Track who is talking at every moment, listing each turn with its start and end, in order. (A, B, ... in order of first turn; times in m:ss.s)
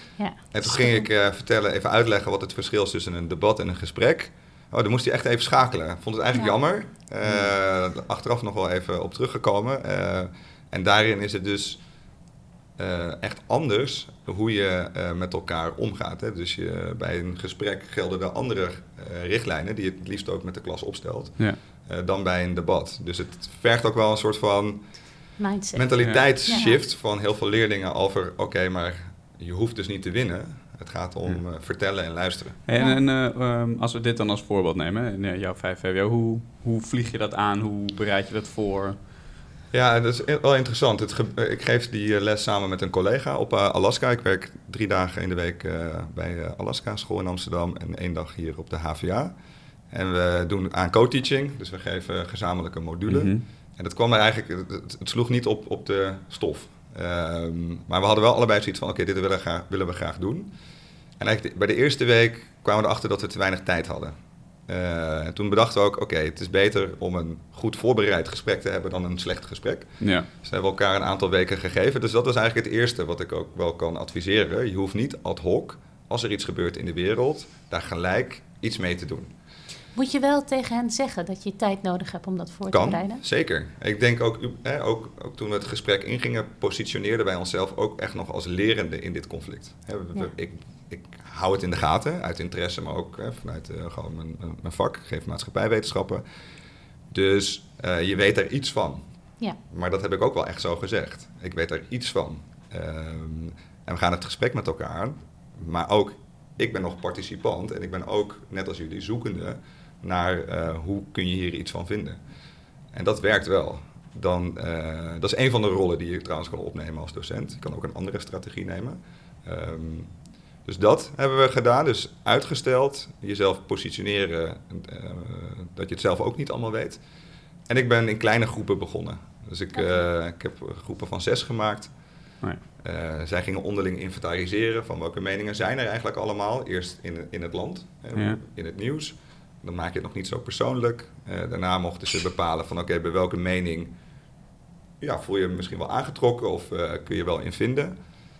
0:00.5-0:11.8 A
0:12.8-0:24.9 A
0:25.4-0:26.7 B
0:25.8-0:32.6 A
0:26.0-0:26.4 C
0:32.6-0:39.0 C
0:32.8-0:33.0 B
0:39.7-0:49.3 A
0:49.9-1:00.5 A
0:53.1-0:53.4 C
1:01.2-1:04.1 A
1:04.7-1:19.3 A
1:10.0-1:10.3 C
1:19.9-1:23.2 B
1:22.7-1:36.2 A
1:37.1-1:39.0 A
1:39.7-1:52.2 A
1:52.9-2:00.1 A
2:00.6-2:07.0 A
2:07.7-2:11.9 A
2:12.8-2:23.9 A
2:25.0-2:27.9 A